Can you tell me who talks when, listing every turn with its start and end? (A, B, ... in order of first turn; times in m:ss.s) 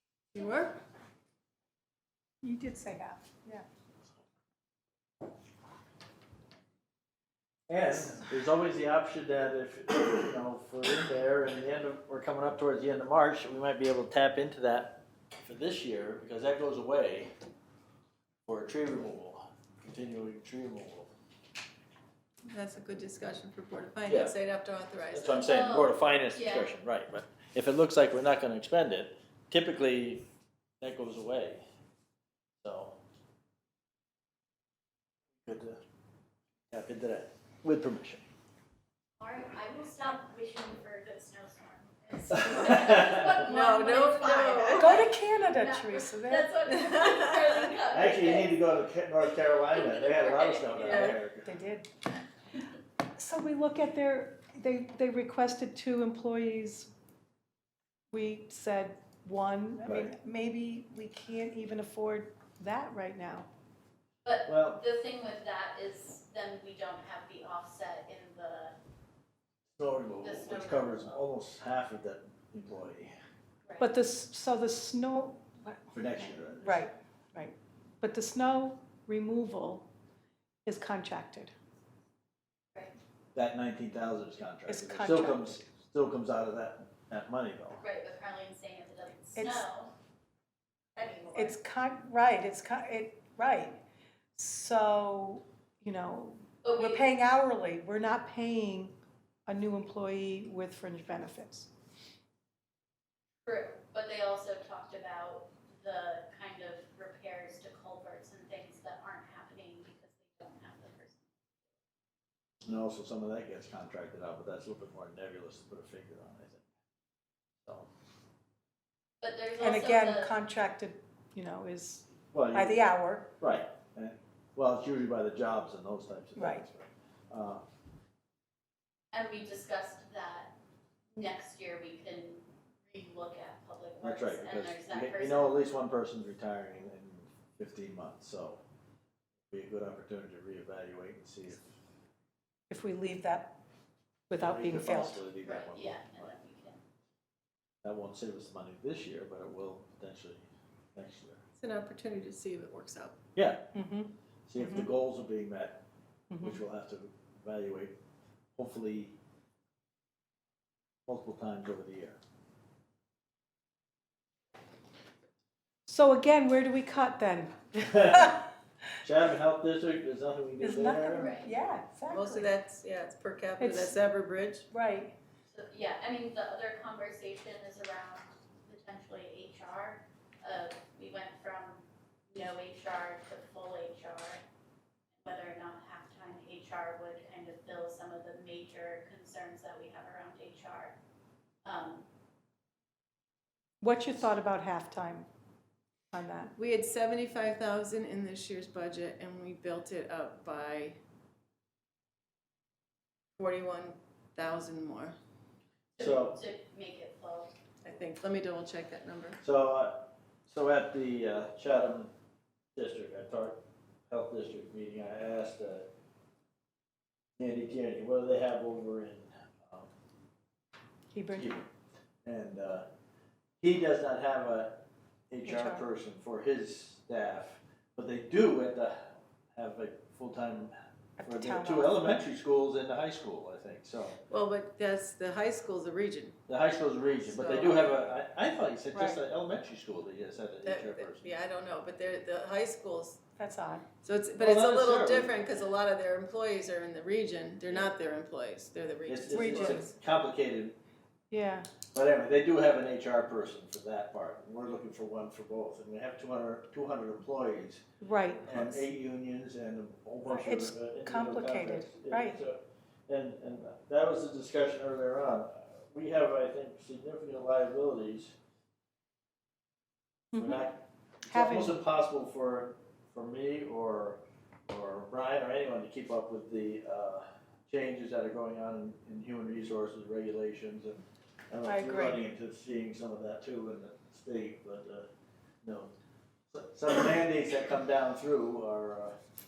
0:00.3-0:00.8 A
0:02.4-0:03.6 B
0:07.7-0:17.3 C
0:18.4-0:21.1 C
0:22.5-0:25.5 A
0:24.1-0:24.4 C
0:25.1-0:30.2 C
0:25.4-0:26.7 D
0:30.8-0:31.6 C
0:32.6-0:33.0 C
0:35.4-0:35.8 C
0:36.7-0:38.2 C
0:39.2-0:48.5 D
0:42.3-0:43.4 C
0:43.4-0:45.1 A
0:44.8-0:46.5 B
0:46.7-0:47.6 A
0:47.9-0:51.6 C
0:49.7-0:51.1 D
0:50.8-0:51.1 A
0:51.4-0:51.9 B
0:53.2-0:56.9 B
0:58.1-1:03.5 B
0:59.8-1:00.1 C
1:04.2-1:08.7 D
1:04.5-1:04.8 C
1:09.8-1:13.1 C
1:10.2-1:11.2 D
1:13.8-1:15.9 B
1:15.9-1:16.9 C
1:16.6-1:19.9 B
1:20.6-1:21.5 B
1:23.3-1:27.8 C
1:24.7-1:25.6 B
1:27.8-1:29.9 D
1:29.4-1:29.6 B
1:31.0-1:31.6 D
1:31.3-1:33.8 B
1:34.3-1:38.9 B
1:36.6-1:37.0 D
1:39.5-1:41.7 B
1:43.4-1:51.3 D
1:52.6-1:56.6 C
1:59.2-2:00.3 D
1:59.6-2:03.3 B
2:02.3-2:07.6 C
2:06.4-2:06.6 B
2:09.1-2:10.5 D
2:11.1-2:15.6 D
2:14.0-2:18.6 C
2:19.5-2:21.6 C
2:22.7-2:23.6 B
2:24.3-2:25.2 B
2:24.3-2:26.3 C
2:25.4-2:26.8 D
2:27.8-2:31.4 C
2:31.6-2:33.2 A
2:33.3-2:33.6 C
2:33.7-2:34.9 B
2:34.5-2:35.8 C
2:36.3-2:36.6 B
2:36.4-2:37.9 C
2:38.6-2:39.1 C
2:41.1-2:42.2 C
2:45.8-2:48.4 B
2:47.8-2:48.4 C
2:49.0-2:51.3 C
2:50.6-2:52.5 B
2:51.1-2:51.5 D
2:52.1-2:54.7 A
2:53.6-2:54.0 B
2:54.7-2:55.1 B
2:55.4-3:04.4 D
3:05.2-3:11.0 D
3:11.6-3:12.0 D
3:13.8-3:15.3 B
3:16.1-3:16.5 B
3:16.6-3:21.0 A
3:23.4-3:25.1 A
3:26.0-3:27.5 D
3:26.0-3:26.4 C
3:27.8-3:29.4 A
3:29.4-3:32.1 C
3:32.7-3:35.9 C
3:37.4-3:39.9 C
3:41.1-3:41.6 B
3:41.4-3:41.7 C
3:42.2-3:42.8 C
3:43.6-3:50.7 C
3:45.4-3:45.8 B
3:51.2-3:52.1 B
3:51.2-3:54.2 C
3:54.3-3:56.3 A
3:56.5-4:01.3 C
3:57.4-3:57.8 A
3:58.9-3:59.2 B
4:00.6-4:03.2 A
4:03.4-4:03.8 B
4:04.0-4:09.8 A
4:04.4-4:05.5 C
4:09.0-4:10.7 C
4:09.3-4:09.9 B
4:11.3-4:11.7 B
4:11.9-4:17.8 C
4:18.0-4:18.9 B
4:18.4-4:28.3 C
4:20.2-4:22.4 B
4:30.3-4:30.6 B
4:30.4-4:45.1 C
4:31.3-4:31.8 B
4:41.6-4:42.2 B
4:45.6-4:45.9 C
4:46.5-4:49.2 C